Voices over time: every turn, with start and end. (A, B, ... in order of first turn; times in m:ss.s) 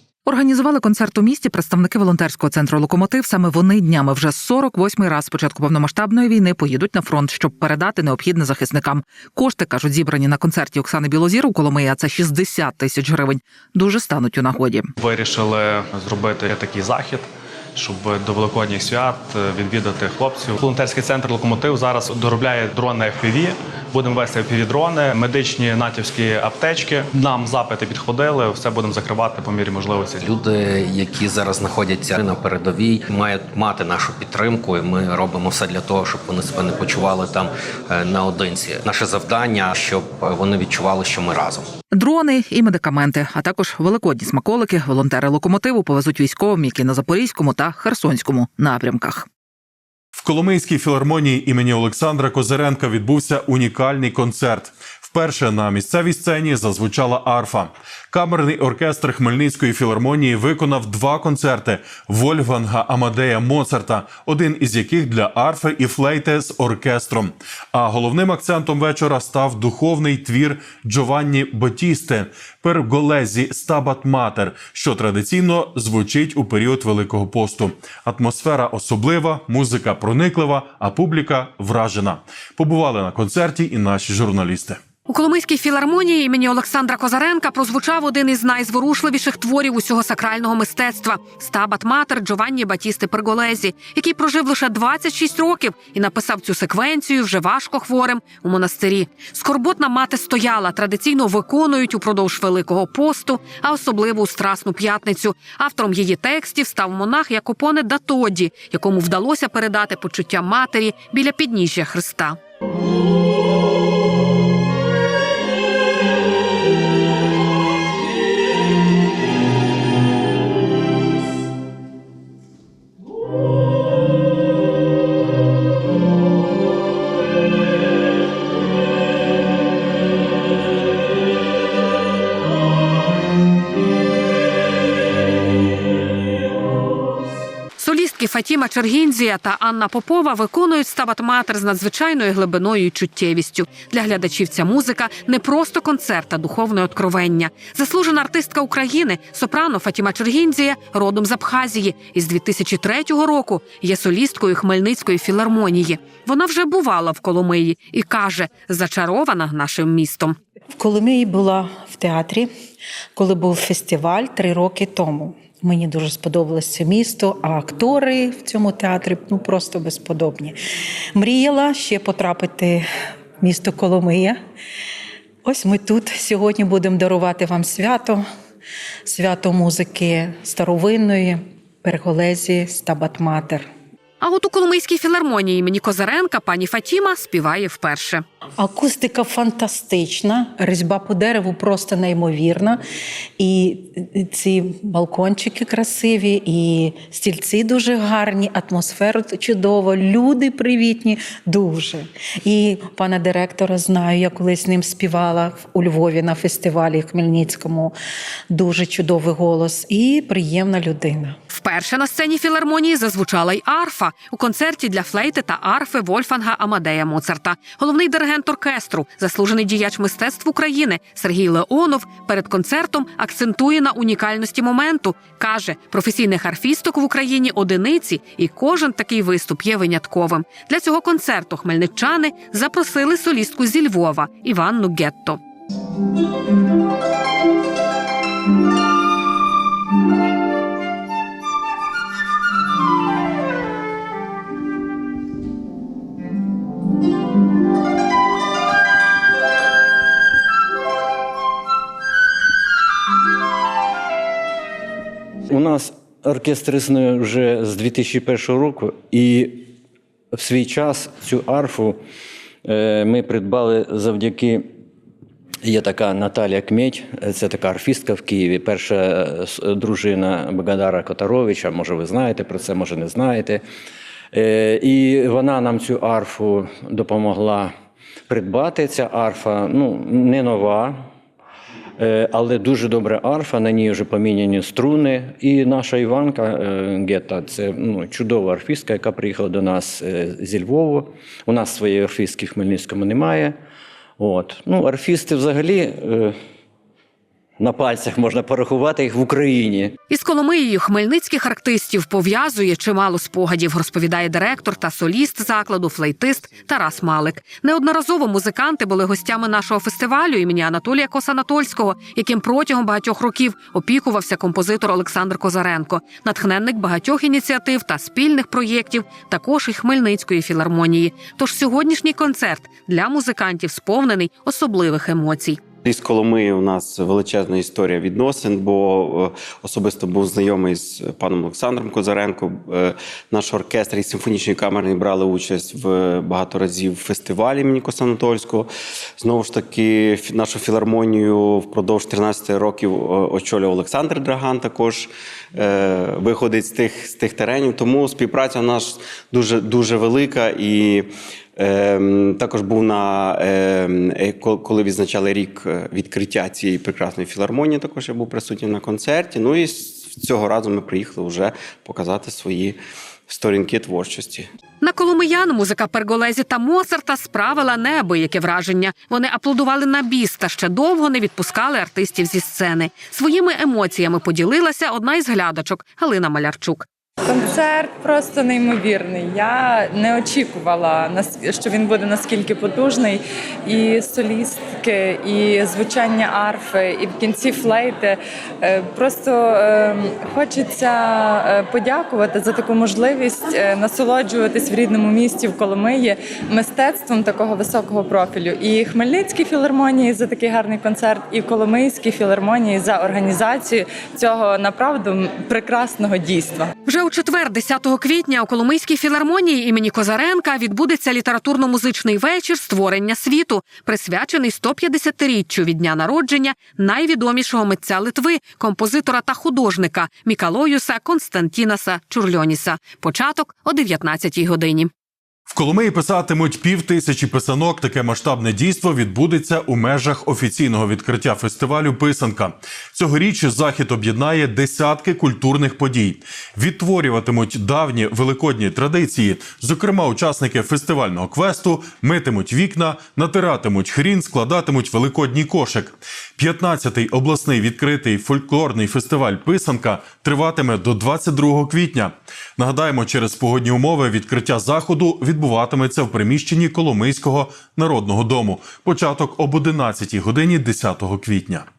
0:00.2-0:14.9 A
0:15.0-0:30.3 B
0:30.3-0:41.6 C
0:41.9-0:49.3 A
0:50.1-1:24.8 D
1:25.1-1:52.4 E
2:17.8-2:40.4 E
2:40.8-2:42.5 F
2:43.1-2:50.6 F
2:51.1-2:52.9 F
2:53.4-2:54.4 F
2:55.4-2:58.2 F
2:59.0-3:03.7 F
3:04.2-3:08.2 E
3:08.6-3:12.8 F
3:13.4-3:27.9 F
3:28.5-3:31.4 F
3:31.5-3:55.4 E
4:15.5-4:19.7 G
4:20.3-4:22.0 G
4:22.6-4:24.7 G
4:25.6-4:33.6 G
4:34.3-4:37.7 G
4:38.3-4:41.0 G
4:42.0-4:53.6 G
4:54.2-4:56.4 G
4:57.6-5:00.0 G
5:00.1-5:25.6 E
5:25.8-6:04.5 H
6:04.8-6:16.8 E
6:17.2-6:46.7 I
6:46.8-7:04.9 E
7:05.5-7:41.6 D